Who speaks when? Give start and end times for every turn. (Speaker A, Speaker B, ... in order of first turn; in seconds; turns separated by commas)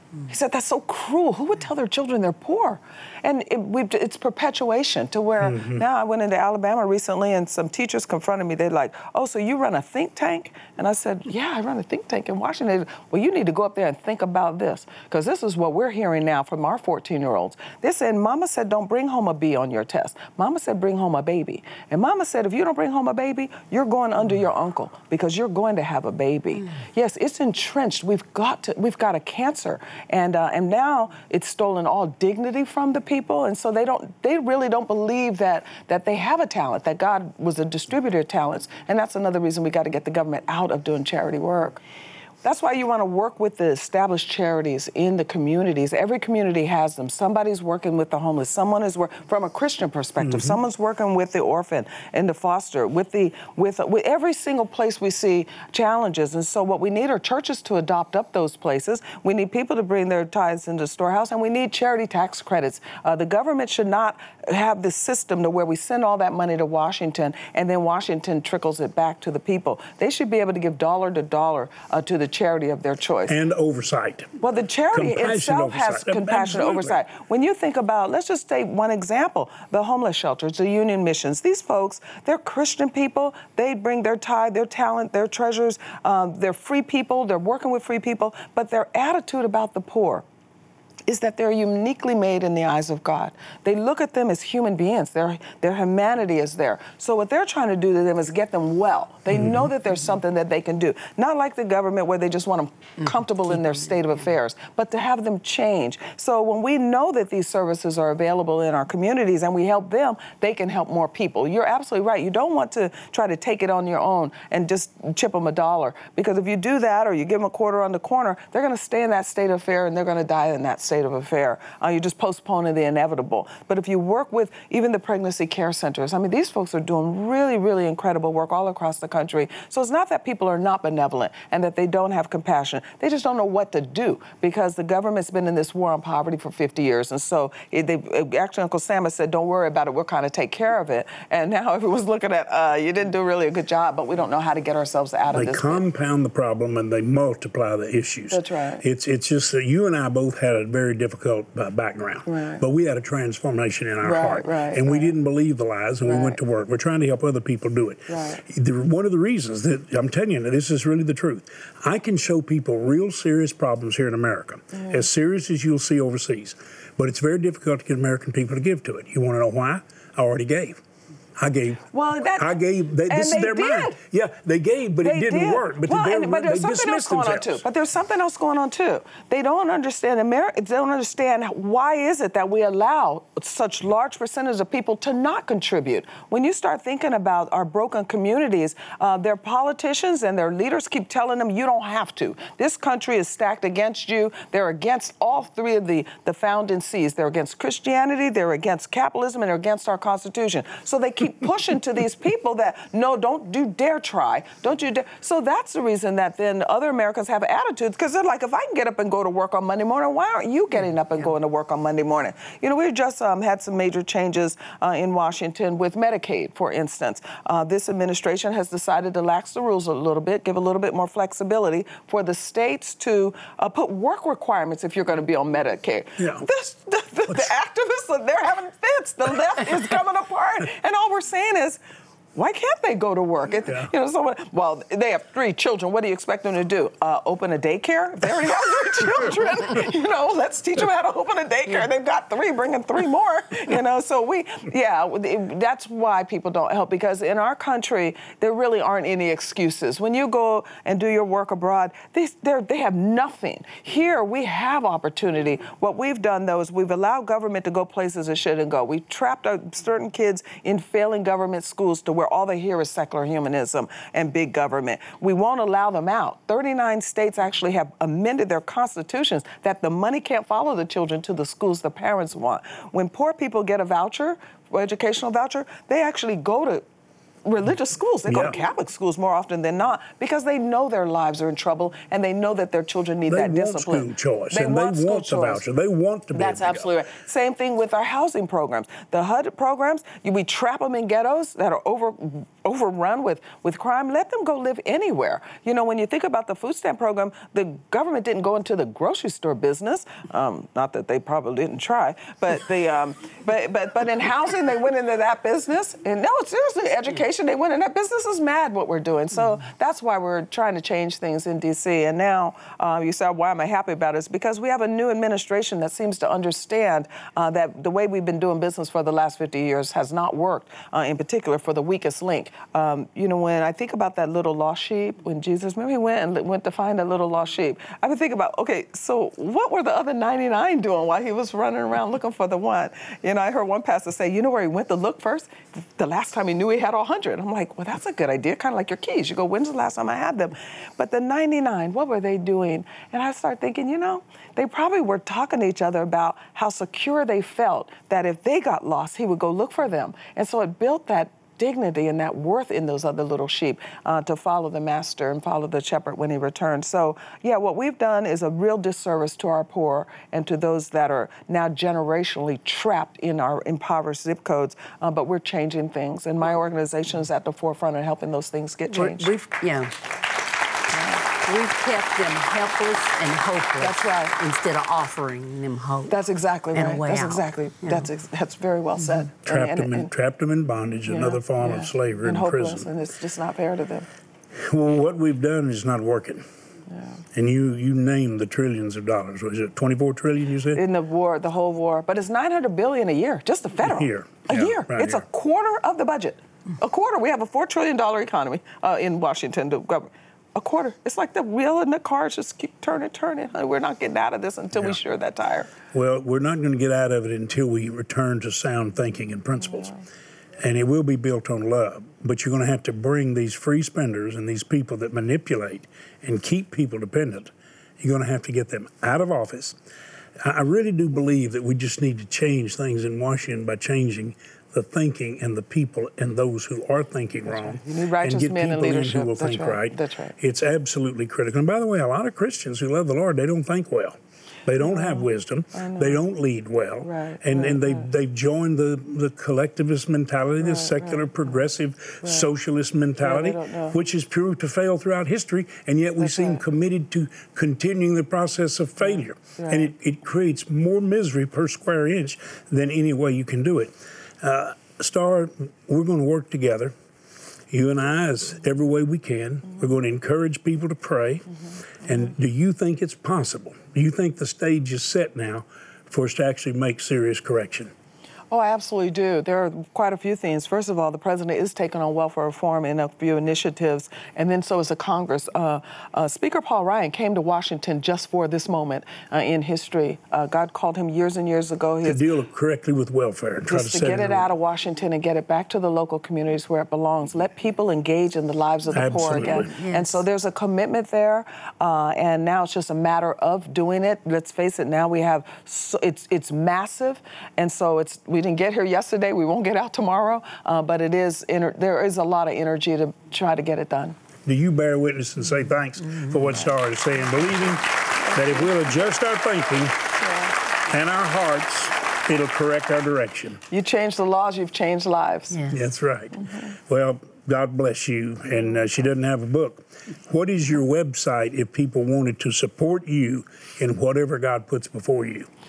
Speaker A: 0.3-41.8, Speaker B: 5.4-5.8, Speaker A: 42.4-73.4, Speaker B: 50.2-50.5, Speaker B: 73.3-74.3, Speaker A: 74.4-90.2, Speaker B: 74.9-77.0, Speaker A: 91.1-145.8, Speaker B: 99.3-99.6, Speaker B: 145.3-170.8, Speaker A: 148.3-148.8, Speaker A: 152.3-152.6, Speaker A: 154.0-155.1, Speaker A: 156.0-156.4, Speaker A: 158.1-158.4, Speaker A: 164.7-165.0, Speaker B: 171.3-177.6, Speaker A: 171.9-174.0, Speaker A: 175.0-231.8, Speaker B: 226.2-226.4, Speaker A: 232.3-276.8, Speaker A: 277.4-285.6, Speaker B: 278.2-278.6, Speaker B: 283.2-286.9, Speaker A: 286.3-369.3, Speaker C: 368.9-369.9, Speaker A: 370.9-371.2, Speaker C: 371.4-376.1, Speaker A: 373.8-374.3, Speaker A: 376.1-380.1, Speaker C: 376.7-378.1, Speaker B: 379.4-382.9, Speaker A: 381.1-384.1, Speaker B: 384.5-386.4, Speaker B: 387.3-390.8, Speaker A: 390.7-405.7, Speaker B: 393.8-395.2, Speaker B: 405.9-409.9, Speaker B: 410.6-419.8, Speaker B: 420.4-456.9, Speaker A: 427.5-430.3, Speaker A: 434.8-436.2, Speaker A: 437.0-438.1, Speaker A: 440.6-441.3, Speaker A: 442.2-442.5, Speaker A: 443.2-444.0, Speaker A: 446.2-446.6, Speaker A: 449.6-449.9, Speaker B: 457.7-467.9, Speaker A: 468.5-482.2, Speaker B: 482.0-484.5, Speaker A: 483.6-504.2, Speaker B: 488.9-489.7, Speaker C: 488.9-490.2, Speaker B: 504.4-509.9, Speaker A: 508.2-508.8, Speaker A: 510.2-510.5, Speaker B: 510.9-513.6, Speaker A: 513.7-515.6, Speaker B: 515.7-525.5, Speaker A: 516.4-516.7